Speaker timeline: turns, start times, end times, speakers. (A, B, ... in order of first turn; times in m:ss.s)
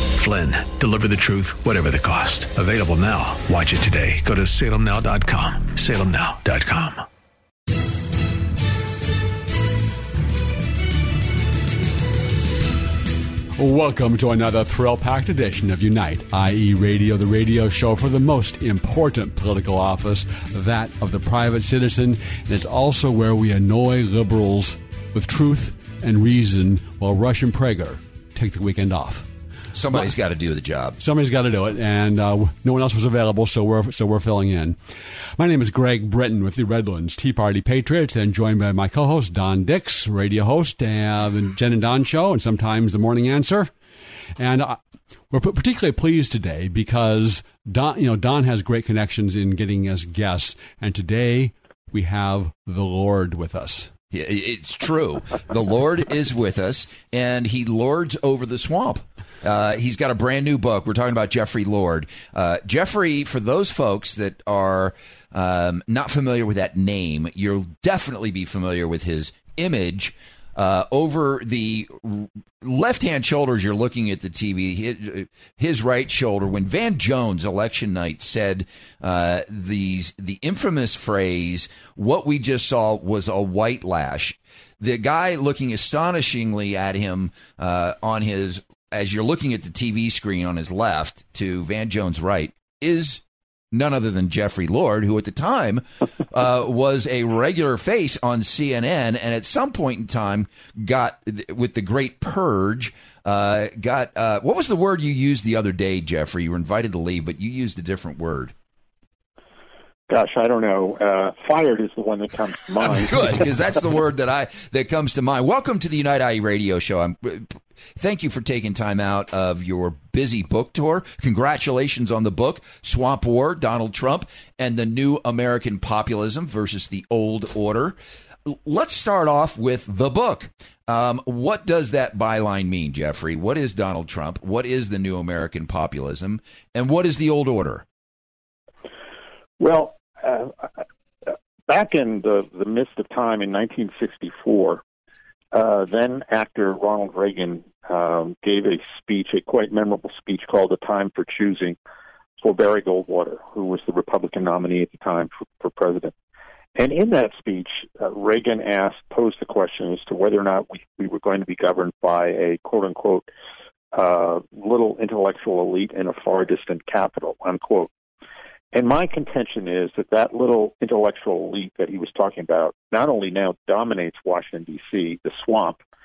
0:00.1-0:07.0 A
0:13.6-0:29.3 B
0:29.7-0:31.0 C
0:31.0-0:34.8 B
0:35.4-0:43.7 B
0:44.4-0:44.8 B
0:45.3-0:53.9 B
0:54.1-1:48.5 C
1:50.1-1:53.4 D
1:52.8-2:17.8 C
2:19.6-2:20.7 D
2:21.3-2:24.8 D
2:25.5-2:31.8 D
2:32.4-2:36.1 D
2:36.8-2:43.3 D
2:43.9-2:47.9 D
2:48.7-2:55.8 D